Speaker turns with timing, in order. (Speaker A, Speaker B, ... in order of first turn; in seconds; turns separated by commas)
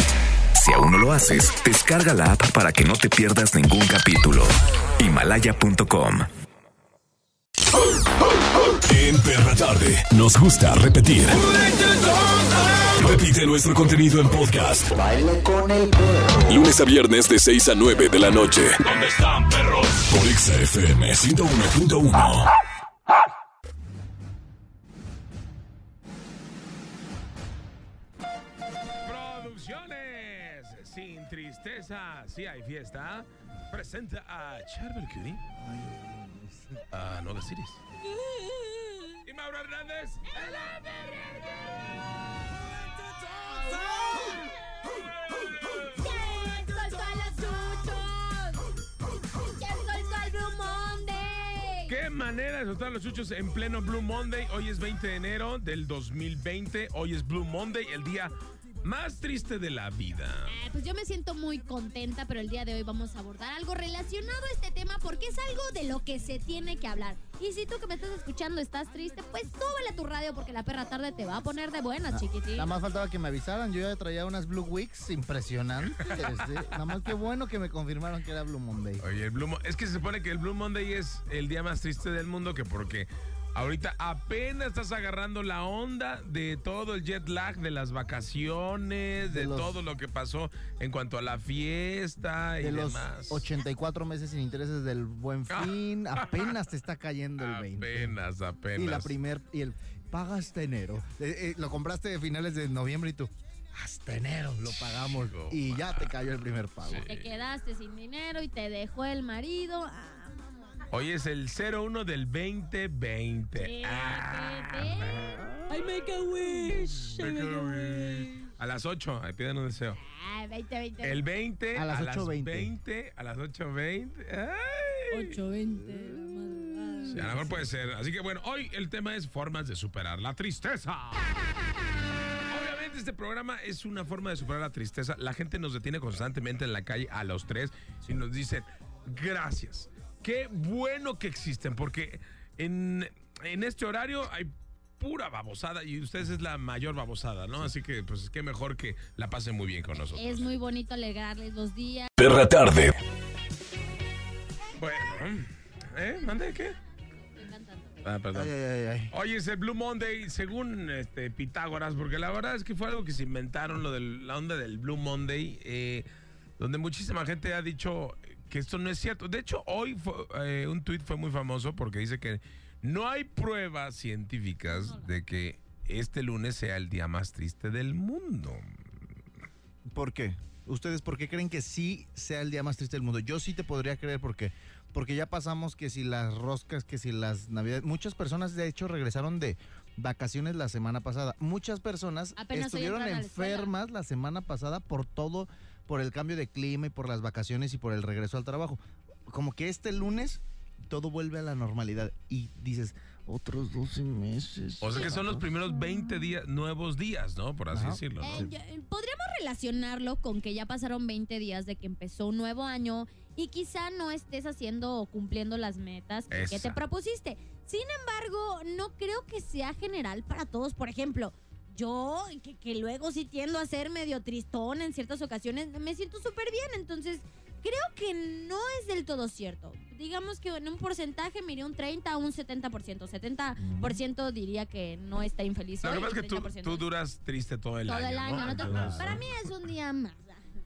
Speaker A: 0.5-6.3, Speaker B: 8.8-11.4, Speaker B: 12.9-15.0, Speaker B: 16.5-22.5, Speaker C: 29.0-35.4, Speaker D: 35.5-36.8, Speaker C: 36.9-37.8, Speaker E: 38.1-39.2, Speaker C: 39.2-41.5, Speaker E: 42.7-48.6, Speaker E: 49.5-51.9, Speaker C: 51.9-60.5, Speaker E: 60.5-72.7, Speaker D: 72.1-79.0, Speaker C: 76.0-76.7, Speaker C: 79.0-93.5, Speaker D: 89.3-89.7, Speaker D: 92.6-98.2, Speaker C: 95.5-96.5, Speaker C: 97.4-99.1, Speaker D: 98.7-107.1, Speaker C: 104.7-106.1, Speaker C: 106.8-107.3, Speaker E: 107.0-110.8, Speaker C: 110.9-115.5, Speaker E: 113.6-115.2, Speaker D: 115.1-115.8, Speaker E: 115.7-118.5, Speaker C: 117.0-120.0, Speaker E: 120.0-121.2, Speaker C: 121.0-125.4, Speaker D: 121.7-122.7, Speaker E: 125.1-127.5, Speaker D: 125.8-127.6, Speaker C: 127.1-131.3, Speaker C: 132.5-150.5, Speaker E: 150.2-152.1, Speaker B: 152.2-153.0, Speaker C: 154.8-156.8, Speaker E: 157.3-158.1, Speaker C: 158.0-158.5, Speaker D: 158.3-159.1, Speaker C: 159.1-166.1, Speaker C: 166.6-178.7, Speaker E: 174.6-175.2, Speaker D: 179.9-205.5, Speaker E: 192.4-193.7, Speaker C: 204.8-208.5, Speaker E: 205.7-206.1, Speaker D: 207.7-208.5, Speaker E: 208.2-236.9, Speaker C: 216.3-216.8, Speaker D: 233.6-234.0, Speaker C: 235.8-239.2, Speaker E: 237.9-240.4, Speaker D: 238.4-239.2